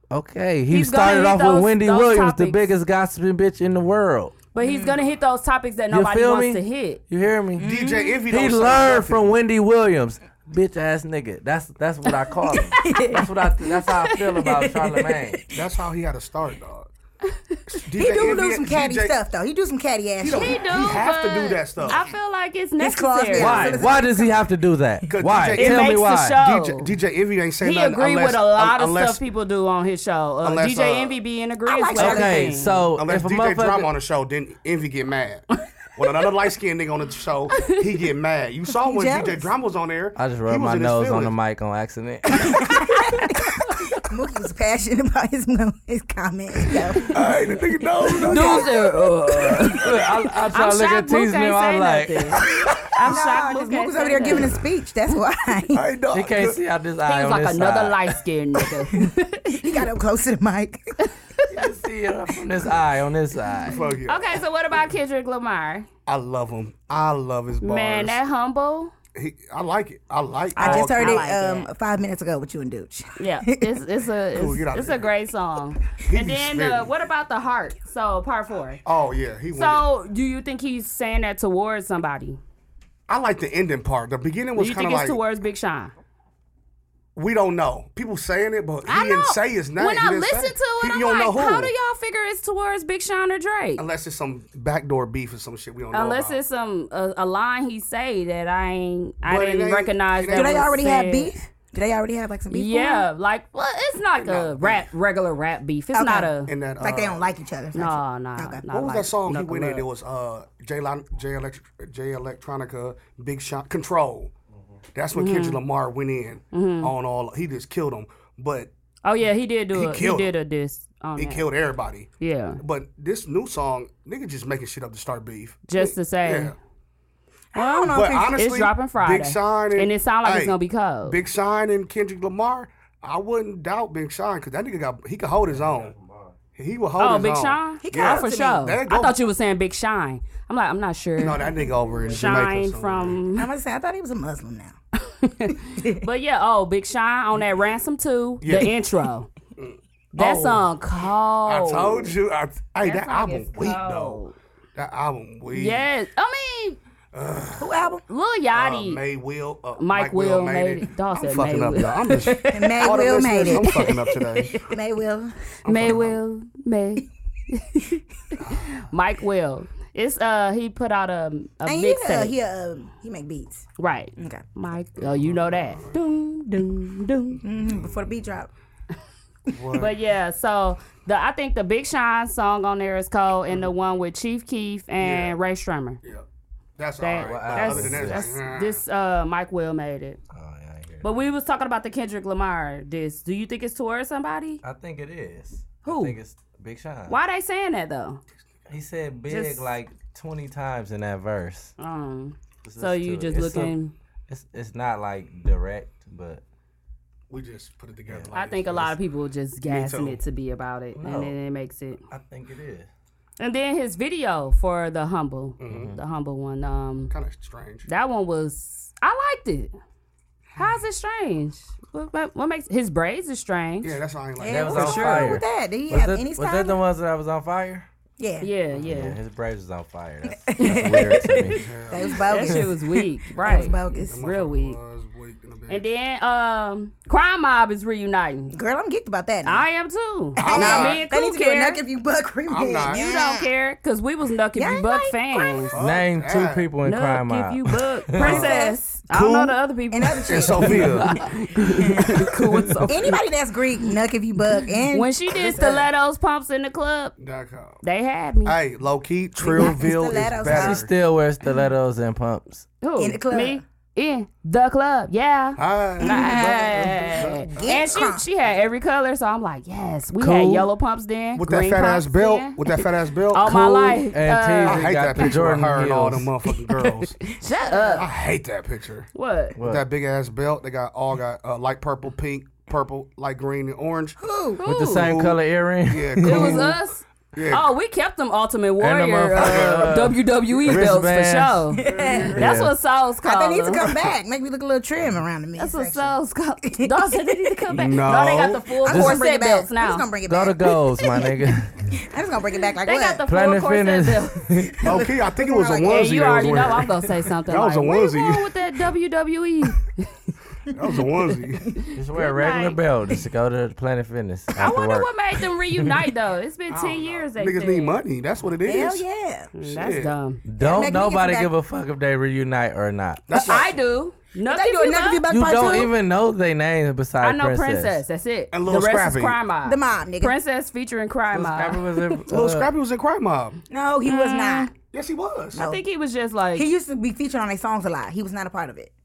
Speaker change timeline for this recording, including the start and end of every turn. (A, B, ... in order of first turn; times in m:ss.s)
0:00.1-0:04.4 A
0:00.7-0:02.7 B
0:04.5-0:07.0 B
0:04.6-0:04.9 C
0:05.9-0:07.7 A
0:07.6-0:08.2 C
0:07.6-0:09.4 D
0:08.3-0:15.4 A
0:12.8-0:13.3 C
0:13.0-0:14.3 B
0:14.4-0:15.4 C
0:15.5-0:16.9 D
0:17.7-0:19.2 D
0:17.9-0:20.6 C
0:20.2-0:22.0 D
0:20.3-0:23.9 B
0:22.8-0:24.4 C
0:23.4-0:26.4 A
0:25.1-0:29.2 D
0:25.6-0:26.9 B
0:27.6-0:32.8 B
0:30.4-0:31.2 D
0:31.7-0:32.6 C
0:32.0-0:33.9 A
0:33.0-0:41.3 D
0:38.8-0:39.5 C
0:40.2-0:42.6 A
0:42.4-0:47.4 C
0:42.8-0:43.4 B
0:47.0-0:48.8 D
0:48.2-0:48.7 C
0:48.2-0:54.6 B
0:49.6-0:52.5 A
0:53.0-0:55.9 C
0:55.7-0:56.6 D
0:56.1-0:58.2 A
0:57.1-0:59.8 B
0:59.5-1:00.8 C
1:01.1-1:01.6 B
1:01.5-1:03.8 A
1:03.7-1:04.4 D
1:04.1-1:05.9 B
1:06.1-1:08.2 D
1:07.6-1:08.9 B
1:09.2-1:11.3 D
1:10.6-1:13.7 C
1:10.6-1:11.7 B
1:13.2-1:18.8 B
1:14.3-1:15.1 D
1:16.0-1:16.9 D
1:18.8-1:19.8 D
1:19.5-1:22.4 B
1:23.1-1:25.2 D
1:24.6-1:25.9 B
1:27.2-1:31.7 D
1:28.9-1:33.8 B
1:33.8-1:36.4 D
1:35.9-1:41.4 B
1:39.2-1:40.8 D
1:40.3-1:43.1 C
1:42.5-1:46.5 B
1:44.2-1:44.8 D
1:45.9-1:48.7 C
1:46.5-1:47.2 D
1:47.7-1:49.9 B
1:48.7-1:54.3 D
1:54.9-1:58.7 D
1:55.2-1:55.6 B
1:56.5-1:56.9 B
1:59.0-2:01.5 B
1:59.7-2:00.3 D
2:01.2-2:06.6 D
2:02.2-2:02.6 B
2:05.7-2:06.5 B
2:07.5-2:08.4 C
2:07.6-2:11.2 B
2:07.9-2:15.9 D
2:15.5-2:16.2 A
2:16.6-2:19.2 D
2:17.0-2:21.5 B
2:17.8-2:18.6 C
2:21.2-2:23.2 D
2:22.1-2:23.5 B
2:23.4-2:24.8 C
2:25.1-2:29.3 B
2:25.8-2:26.0 C
2:28.4-2:28.7 D
2:29.6-2:30.7 D
2:30.1-2:32.1 B
2:31.5-2:34.2 D
2:32.8-2:34.4 B
2:34.8-2:35.8 D
2:35.5-2:36.8 B
2:37.1-2:37.9 D
2:37.6-2:38.0 C
2:38.1-2:39.0 B
2:38.5-2:44.7 D
2:39.8-2:42.8 B
2:42.3-2:45.4 C
2:43.5-2:43.9 B
2:45.6-2:46.2 D
2:45.6-2:52.3 B
2:48.4-2:48.7 D
2:51.6-2:54.4 C
2:53.8-2:57.4 B
2:55.0-2:56.0 D
2:57.4-2:58.5 C
2:59.5-2:59.9 D
2:59.7-3:06.0 B
3:05.0-3:05.4 D
3:06.8-3:08.8 D
3:07.0-3:10.2 B
3:07.2-3:08.3 A
3:10.3-3:11.2 A
3:11.0-3:14.6 B
3:14.6-3:17.2 A
3:15.8-3:16.2 B
3:17.1-3:18.2 B
3:18.7-3:21.7 A
3:19.3-3:19.6 B
3:21.8-3:23.9 B
3:22.6-3:23.7 A
3:24.3-3:26.4 A
3:27.3-3:29.0 D
3:28.3-3:32.0 B
3:29.7-3:30.2 D
3:31.0-3:31.3 A
3:32.1-3:32.9 A
3:33.4-3:37.1 B
3:35.6-3:36.0 D
3:35.7-3:36.0 A
3:37.1-3:37.9 D
3:37.9-3:39.7 B
3:40.6-3:44.0 B
3:43.8-3:45.4 D
3:44.4-3:46.8 C
3:44.4-3:47.9 A
3:48.2-3:48.5 C
3:48.4-3:49.2 B
3:48.8-3:51.7 A
3:50.3-3:54.2 C
3:50.6-3:51.1 B
3:51.6-3:52.3 D
3:52.1-3:54.8 B
3:54.0-3:55.9 D
3:55.7-3:58.6 B
3:58.5-3:59.6 C
3:59.4-4:01.8 B
4:00.4-4:03.5 C
4:00.4-4:01.0 D
4:02.5-4:03.0 D
4:02.9-4:05.7 B
4:04.6-4:05.7 C
4:05.7-4:06.7 D
4:05.8-4:08.3 A
4:06.8-4:13.2 B
4:08.2-4:08.6 D
4:08.2-4:08.9 C
4:09.1-4:09.6 D
4:09.9-4:11.0 C
4:10.3-4:11.2 D
4:11.8-4:12.2 C
4:12.9-4:15.9 C
4:14.9-4:17.2 B
4:17.2-4:17.8 D
4:17.8-4:18.6 B
4:18.4-4:20.9 D
4:19.4-4:20.9 C
4:20.4-4:22.7 A
4:22.8-4:35.4 B
4:23.0-4:23.6 C
4:25.6-4:27.8 D
4:26.0-4:28.3 C
4:30.2-4:30.7 A
4:31.4-4:34.0 D
4:34.1-4:36.3 A
4:34.6-4:37.2 D
4:37.2-4:38.1 B
4:37.6-4:38.0 C
4:38.0-4:39.1 D
4:39.2-4:39.6 B
4:39.6-4:39.8 A
4:39.6-4:44.2 D
4:44.2-4:44.6 C
4:44.6-4:45.2 B
4:44.6-4:46.7 A
4:45.0-4:45.4 D
4:45.9-4:46.8 D
4:46.2-4:53.9 B
4:47.3-4:47.7 D
4:48.8-4:51.6 A
4:49.4-4:49.8 D
4:51.7-4:52.4 C
4:51.9-4:52.3 D
4:52.4-4:52.8 A
4:53.2-4:57.6 C
4:55.6-5:00.1 B
4:57.7-4:58.7 D
4:58.8-5:03.2 C
4:58.9-4:59.2 A
5:00.3-5:01.9 A
5:02.8-5:04.7 B
5:03.3-5:05.0 A
5:04.8-5:06.2 C
5:04.8-5:06.9 D
5:05.9-5:10.1 B
5:07.5-5:08.5 D
5:10.7-5:11.7 D
5:11.8-5:12.8 B
5:12.0-5:15.1 A
5:14.6-5:18.0 B
5:16.7-5:19.0 D
5:18.6-5:19.5 C
5:19.5-5:20.4 B
5:19.6-5:20.1 D
5:20.4-5:23.2 A
5:20.6-5:21.5 C
5:23.3-5:23.8 D
5:23.3-5:25.9 B
5:24.4-5:25.9 C
5:25.3-5:28.0 A
5:27.2-5:32.0 B
5:28.5-5:29.4 D
5:29.6-5:30.4 C
5:31.3-5:32.7 A
5:32.3-5:33.6 D
5:33.7-5:34.7 C
5:34.0-5:34.7 B
5:34.9-5:35.6 D
5:35.5-5:35.8 C
5:35.6-5:36.7 B
5:36.6-5:38.9 C